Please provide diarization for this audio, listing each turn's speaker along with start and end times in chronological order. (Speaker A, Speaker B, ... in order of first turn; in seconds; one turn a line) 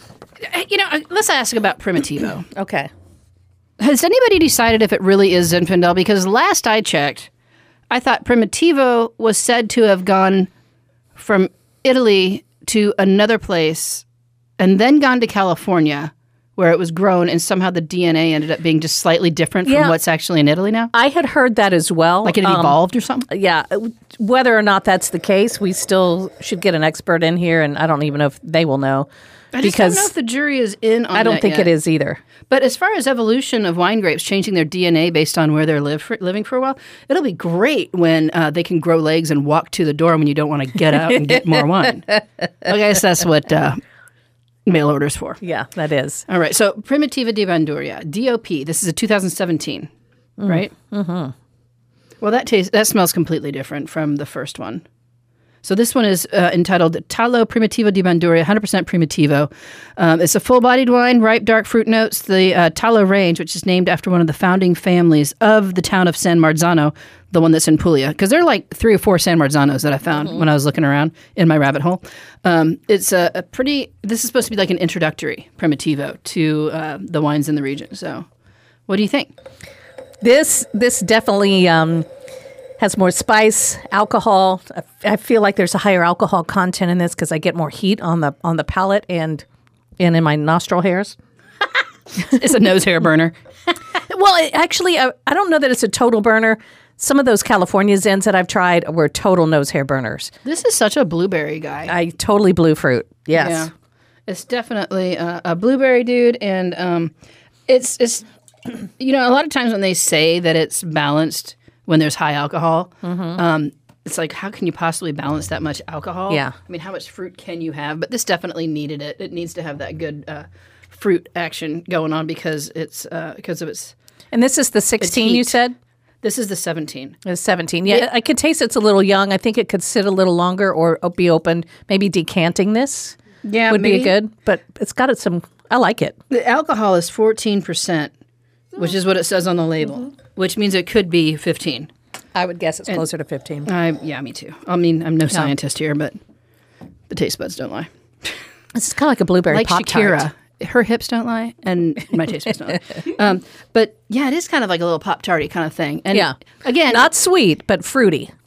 Speaker A: 0.4-2.5
Speaker B: 2.5-2.9
Speaker A: 3.8-7.3
Speaker A: 7.9-10.5
Speaker A: 11.1-14.0
Speaker A: 14.6-20.9
Speaker B: 19.6-20.0
Speaker B: 20.9-29.1
Speaker A: 22.2-23.3
Speaker A: 29.5-31.7
Speaker B: 29.6-30.1
Speaker B: 31.1-32.2
Speaker A: 32.5-43.8
Speaker A: 44.6-45.4
Speaker B: 45.4-46.2
Speaker A: 46.3-49.9
Speaker B: 50.4-51.3
Speaker A: 50.5-50.7
Speaker A: 52.2-54.8
Speaker A: 55.6-78.3
Speaker A: 78.9-79.3
Speaker B: 80.2-82.1
Speaker B: 82.8-89.4
Speaker B: 90.0-91.2
Speaker A: 92.2-93.3
Speaker B: 94.1-100.3
Speaker A: 100.4-101.9
Speaker B: 101.9-103.7
Speaker A: 103.3-103.7
Speaker A: 104.3-107.1
Speaker A: 107.7-123.9
Speaker B: 113.0-113.4
Speaker B: 116.3-116.5
Speaker B: 124.3-125.7
Speaker A: 125.0-125.6
Speaker A: 126.2-127.2
Speaker B: 127.2-136.2
Speaker A: 133.4-134.1
Speaker A: 136.3-138.1
Speaker A: 138.7-141.9
Speaker B: 142.3-143.7
Speaker A: 143.7-146.2
Speaker A: 147.1-148.3
Speaker B: 148.7-150.2
Speaker A: 149.5-157.1
Speaker B: 156.1-158.3